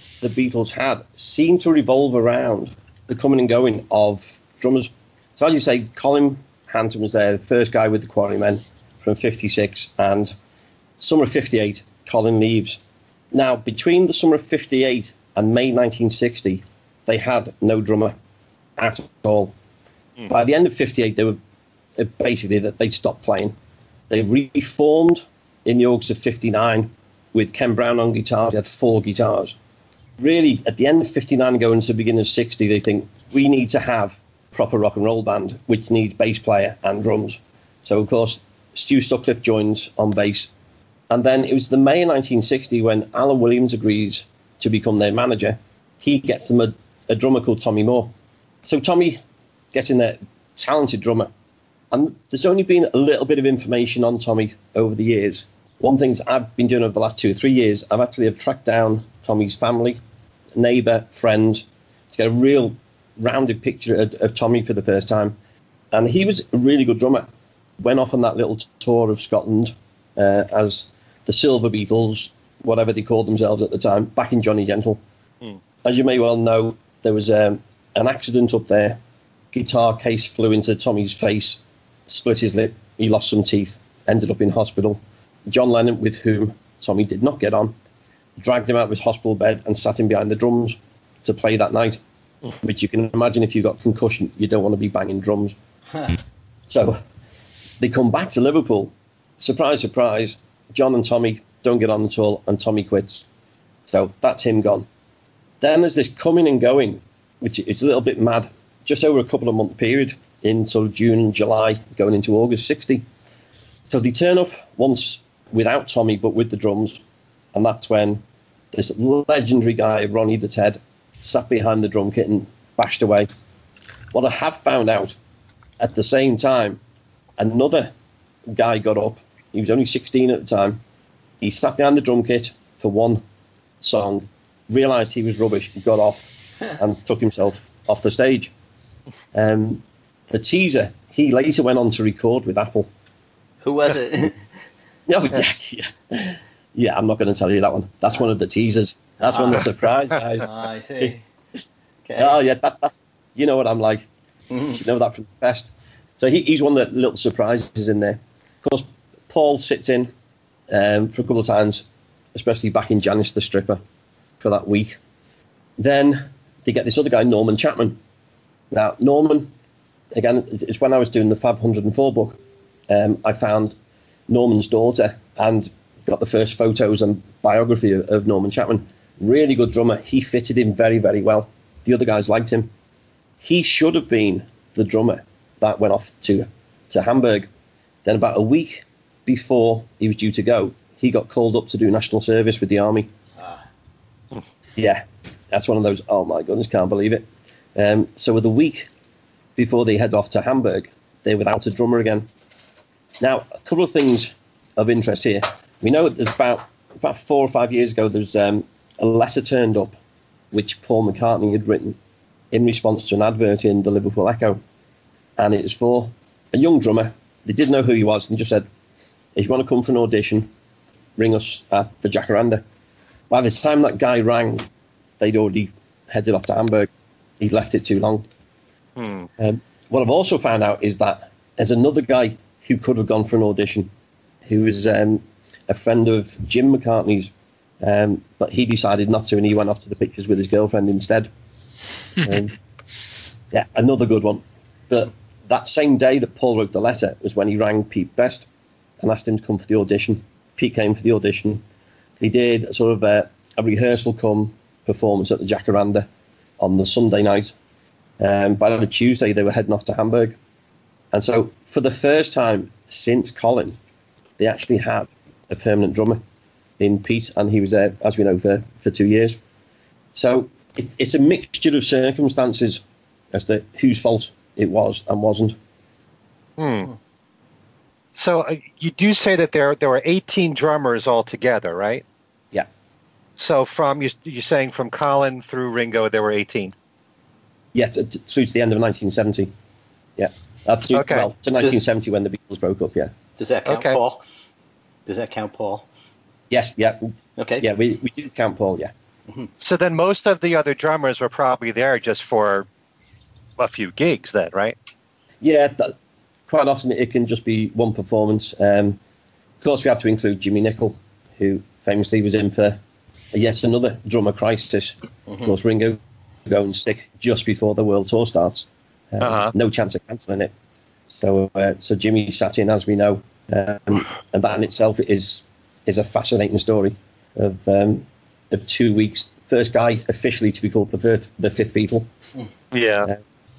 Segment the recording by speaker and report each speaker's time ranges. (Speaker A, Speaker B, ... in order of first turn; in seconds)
Speaker A: 0.2-10.3, 11.0-12.8, 13.3-18.1, 18.8-19.5, 20.3-21.4, 21.9-23.5, 24.1-29.6, 30.2-40.5, 41.1-48.1, 48.6-49.2, 49.7-51.3, 51.9-60.0, 60.5-65.3, 65.9-67.3, 67.8-75.0, 75.8-79.0, 79.5-87.7, 88.4-92.0, 92.6-95.5, 96.7-97.0, 97.8-103.2, 103.9-104.9, 105.6-113.0, 113.9-117.0, 117.5-123.3, 124.1-125.2, 125.8-126.8, 127.4-127.9, 128.5-130.8, 131.4-133.2, 133.8-138.5, 139.3-142.9, 145.1-151.1, 152.2-154.1, 154.7-160.1, 160.7-163.8, 164.4-164.9, 165.8-168.0, 168.7-169.5, 170.1-173.8, 174.3-182.7, 183.4-187.5, 188.0-193.1, 194.8-198.9, 199.6-202.3, 203.2-209.9, 210.5-212.0, 212.5-214.6, 215.4-218.7, 219.3-220.5, 221.2-222.6, 223.3-224.7, 225.2-226.9, 227.4-228.2, 229.4-233.9, 234.4-241.3, 242.2-242.5, 243.5-248.5, 249.0-251.6, 252.2-256.1, 256.6-257.6, 258.2-260.4, 261.1-263.8, 264.4-266.2, 266.8-269.4, 270.1-272.8, 273.3-275.6, 287.7-289.5, 290.2-293.1, 296.5-298.9, 305.4-305.9, 306.5-309.0, 309.6-312.8, 313.3-320.5, 321.1-332.1
Speaker B: 143.6-144.4, 149.2-149.7, 150.4-151.2, 152.1-152.4, 154.5-154.8, 293.4-294.2, 295.1-295.9, 297.4-297.7
Speaker C: 229.0-229.3, 276.6-276.9, 278.1-282.0, 283.4-286.7, 290.9-291.3, 293.6-294.0, 299.6-302.7, 303.6-304.8, 319.2-319.5, 332.7-333.1